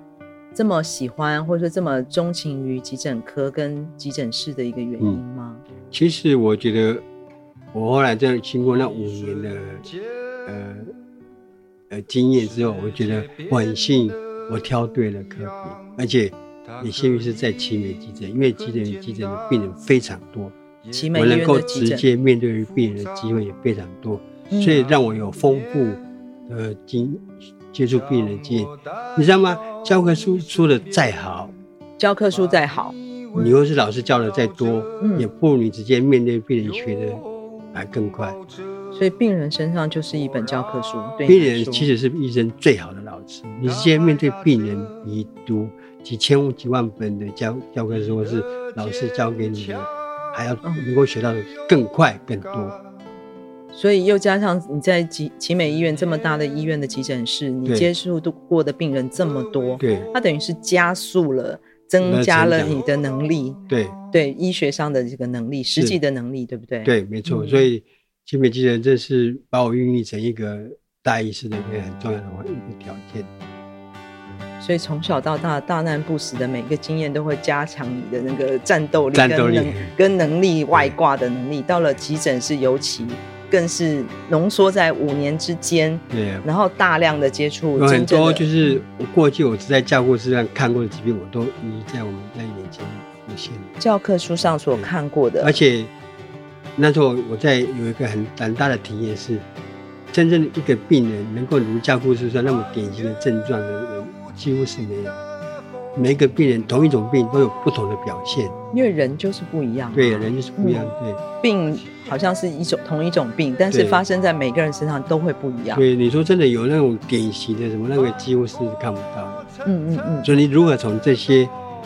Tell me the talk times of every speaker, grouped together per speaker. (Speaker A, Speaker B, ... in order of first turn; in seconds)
Speaker A: 0.5-5.6, 20.9-22.0, 24.5-24.8, 32.0-33.5, 35.0-35.3, 38.9-41.9, 53.7-63.6, 64.1-67.7, 74.6-88.8, 93.8-95.6, 108.7-115.8, 119.6-120.3
Speaker B: 5.9-7.0, 7.7-9.9, 10.4-10.9, 11.9-20.5, 21.1-31.5, 33.4-38.4, 41.2-52.8, 57.6-57.9, 59.8-60.1, 62.0-62.8, 63.7-63.9, 66.8-73.3, 79.1-79.9, 86.1-86.5, 87.8-93.7, 95.4-95.9, 96.8-99.5, 100.1-105.2, 105.9-108.5, 109.9-111.2, 113.7-114.0, 115.7-119.4, 120.2-121.5